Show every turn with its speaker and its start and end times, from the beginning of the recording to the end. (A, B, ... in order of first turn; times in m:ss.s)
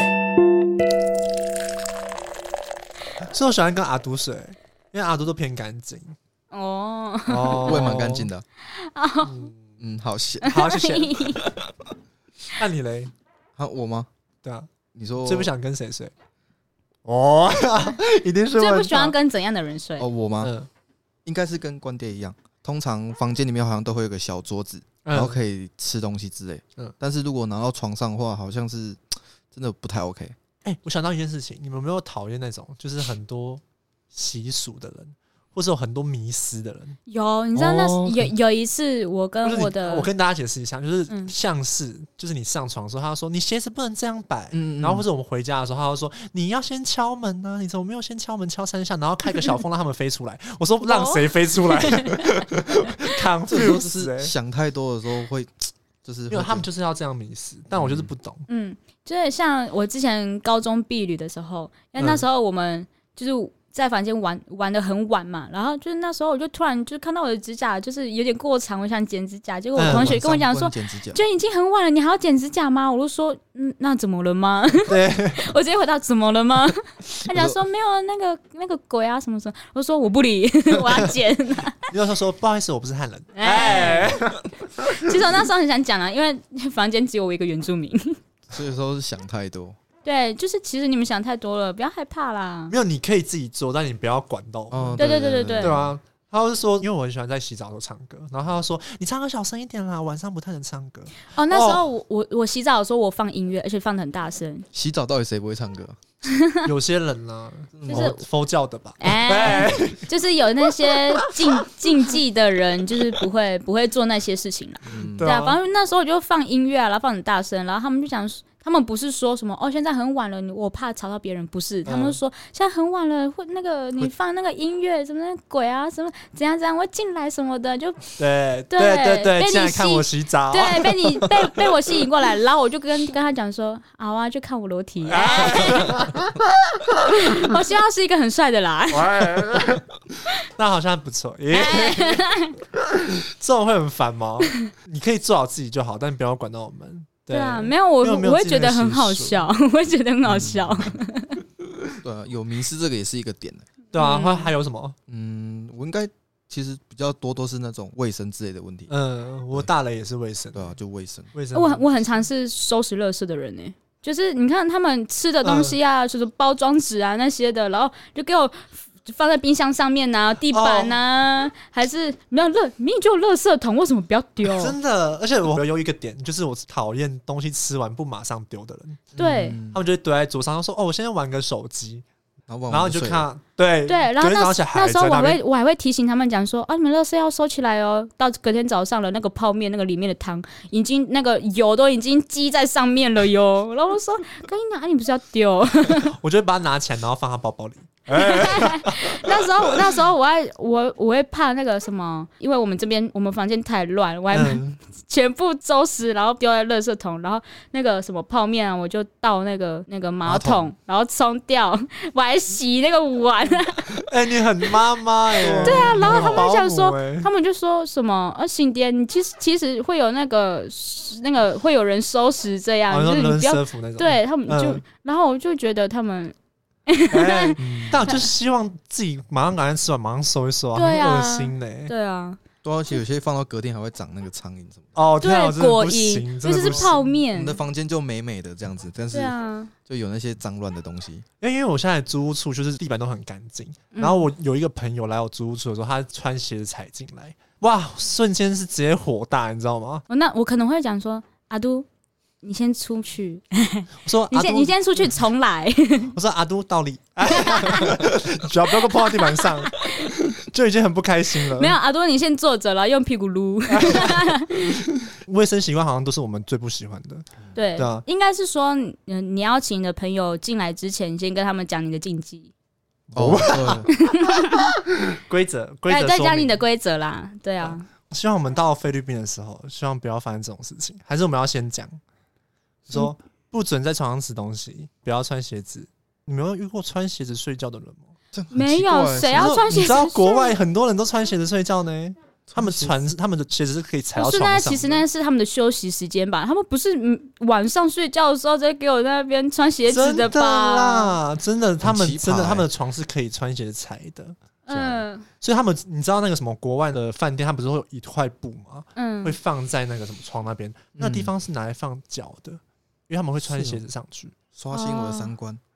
0:03.2-0:06.2 A
0:06.5-0:07.9 B
0:07.3-0:08.3 A
0:07.6-0:08.4 C
0:08.7-0:09.5 B
0:09.2-0:09.7 A
0:09.8-0:10.6 C
0:10.4-0:11.5 B
0:10.4-0:11.4 A
0:12.5-0:13.1 A
0:13.6-0:14.1 C
0:14.4-0:16.1 A
0:14.9-0:15.5 C
0:17.0-0:19.2 A
0:18.6-0:20.1 B
0:20.0-0:20.5 C
0:20.4-0:20.7 A
0:21.2-0:30.4 C
0:25.0-0:25.4 A
0:30.6-0:37.0 A
0:37.1-0:40.1 B
0:37.5-0:38.3 C
0:39.4-0:54.3 A
0:44.5-0:45.0 C
0:50.8-0:52.4 B
0:53.5-0:56.6 C
0:56.3-0:58.4 A
0:57.7-0:58.1 C
0:58.5-1:21.8 B
1:02.0-1:02.2 A
1:09.7-1:10.2 A
1:09.8-1:11.2 C
1:14.8-1:15.5 A
1:17.2-1:17.6 C
1:21.9-1:25.0 A
1:23.4-1:24.2 B
1:24.9-1:28.2 B
1:28.5-1:29.8 C
1:30.0-1:32.7 B
1:32.7-1:41.9 A
1:34.7-1:36.0 C
1:35.0-1:35.8 B
1:41.3-1:44.7 B
1:44.7-1:46.0 C
1:46.6-1:50.1 A
1:47.7-1:48.2 C
1:47.9-1:48.2 B
1:49.0-2:08.1 B
1:50.9-1:51.4 A
1:54.8-1:55.3 C
1:55.1-1:55.6 A
2:01.8-2:02.2 A
2:08.2-2:10.9 A
2:08.7-2:16.0 B
2:15.0-2:16.4 A
2:17.1-2:19.1 B
2:18.9-2:19.9 A
2:20.4-2:22.2 A
2:21.5-2:22.6 B
2:22.9-2:29.5 A
2:27.3-2:31.4 B
2:30.3-2:30.6 A
2:30.3-2:30.9 C
2:32.0-2:33.6 C
2:33.9-2:35.0 A
2:34.0-2:34.5 B
2:35.1-2:38.9 C
2:38.9-2:40.7 A
2:40.5-2:41.3 C
2:41.3-2:42.3 A
2:41.5-2:54.8 B
2:45.4-2:45.8 A
2:50.5-2:51.0 A
2:54.4-2:59.1 A
2:59.1-2:59.8 C
2:59.2-2:59.6 B
2:59.7-3:02.0 A
3:02.5-3:03.3 C
3:02.7-3:05.4 A
3:03.8-3:16.2 B
3:16.0-3:19.5 A
3:18.1-3:34.0 B
3:24.3-3:24.7 A
3:30.2-3:30.7 C
3:34.0-3:37.3 A
3:35.4-3:36.5 C
3:35.4-3:46.3 B
3:42.9-3:44.8 A
3:46.9-3:48.2 B
3:47.1-3:51.9 A
3:47.6-3:48.0 C
3:50.7-3:52.4 B
3:52.6-3:55.0 C
3:54.9-3:57.0 A
3:55.2-3:57.6 B
3:56.5-3:59.4 C
3:59.1-3:59.7 B
3:59.9-4:01.2 C
4:01.4-4:10.0 A
4:03.9-4:04.3 B
4:10.1-4:11.8 B
4:12.4-4:16.1 B
4:14.0-4:14.8 A
4:16.1-4:21.8 A
4:17.3-4:17.9 B
4:18.9-4:20.1 B
4:21.6-4:24.8 B
4:23.7-4:27.2 A
4:27.5-4:32.5 B
4:27.8-4:28.0 A
4:33.1-4:33.9 C
4:33.1-4:36.6 A
4:33.9-4:34.7 B
4:35.8-4:37.8 B
4:37.6-4:42.0 A
4:42.9-4:48.1 A
4:48.3-4:50.0 C
4:48.5-4:50.6 B
4:49.3-4:55.0 A
4:52.5-4:53.0 C
4:54.1-5:01.2 B
4:59.9-5:04.4 A
5:01.8-5:02.7 C
5:04.6-5:05.2 B
5:04.7-5:05.0 C
5:05.4-5:14.3 A
5:09.0-5:09.4 B
5:11.0-5:11.3 C
5:13.4-5:13.8 C
5:14.6-5:15.6 C
5:14.7-5:15.3 B